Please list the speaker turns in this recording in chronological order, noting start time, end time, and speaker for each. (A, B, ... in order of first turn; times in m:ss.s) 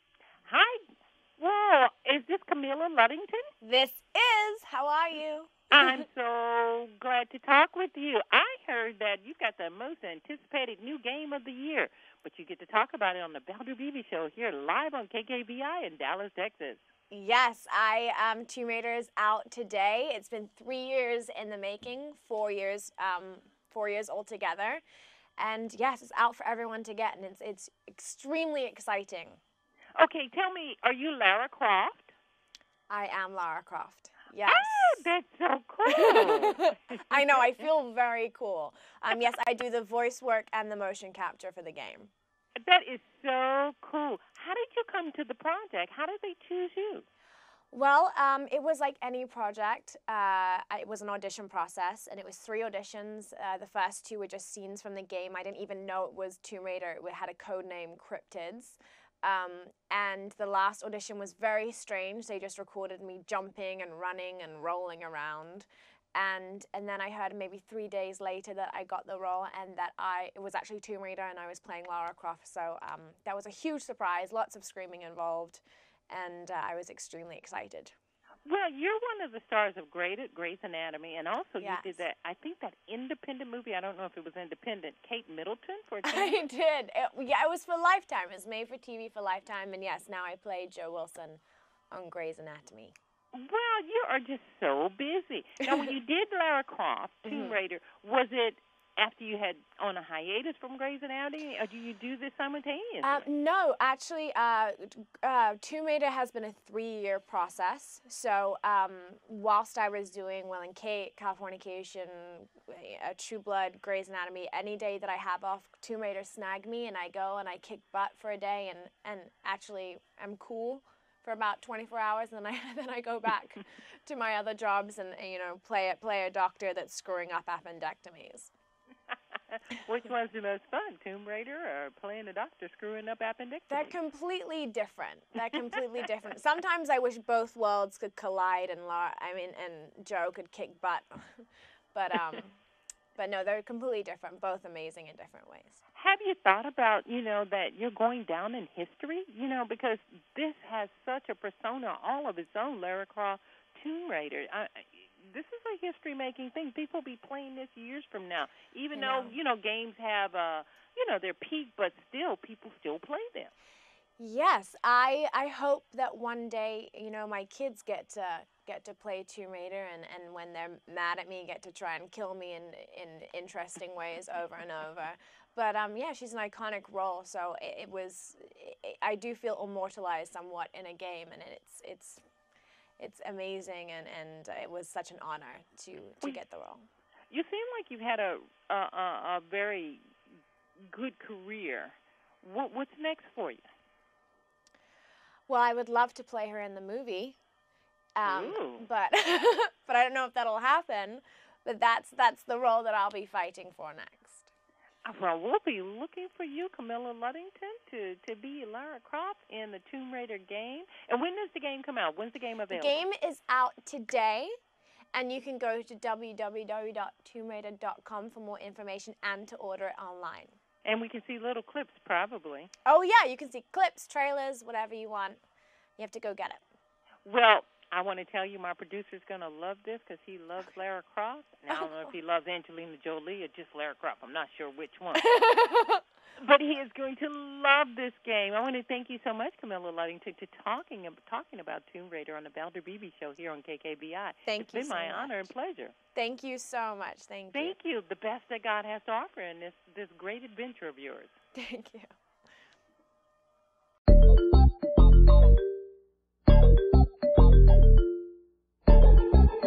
0:00.4-0:00.8 A
0:01.4-0:03.5 A
0:03.6-0:06.0 B
0:05.7-0:16.8 A
0:17.1-0:24.8 B
0:25.4-0:29.4 B
0:30.0-0:32.1 A
0:32.9-0:35.1 B
0:34.5-0:37.4 A
0:35.8-0:42.1 B
0:42.6-0:47.0 A
0:47.7-1:17.9 B
1:18.4-1:26.4 A
1:21.6-1:22.0 B
1:26.0-1:32.9 B
1:33.3-1:43.3 A
1:35.6-1:35.9 B
1:37.2-1:37.6 B
1:43.0-2:08.5 B
2:09.5-2:13.9 A
2:13.7-2:22.6 B
2:23.2-2:25.8 B
2:25.9-2:43.5 A
2:38.9-2:39.4 B
2:44.2-3:02.2 B
3:03.0-3:06.9 B
3:07.3-3:10.1 A
3:10.9-3:13.6 A
3:15.5-3:17.4 B
3:18.2-3:24.5 B
3:18.2-3:18.8 A
3:25.0-3:33.0 A
3:32.7-3:34.5 B
3:35.1-3:40.5 B
3:40.8-3:42.7 A
3:42.8-3:45.4 B
3:46.0-3:46.6 B
3:47.2-3:55.3 A
3:51.7-3:52.1 B
3:55.1-3:56.0 B
3:56.4-4:05.9 A
4:04.5-4:05.5 B
4:06.1-4:07.8 B
4:07.5-4:11.3 A
4:11.5-4:12.1 B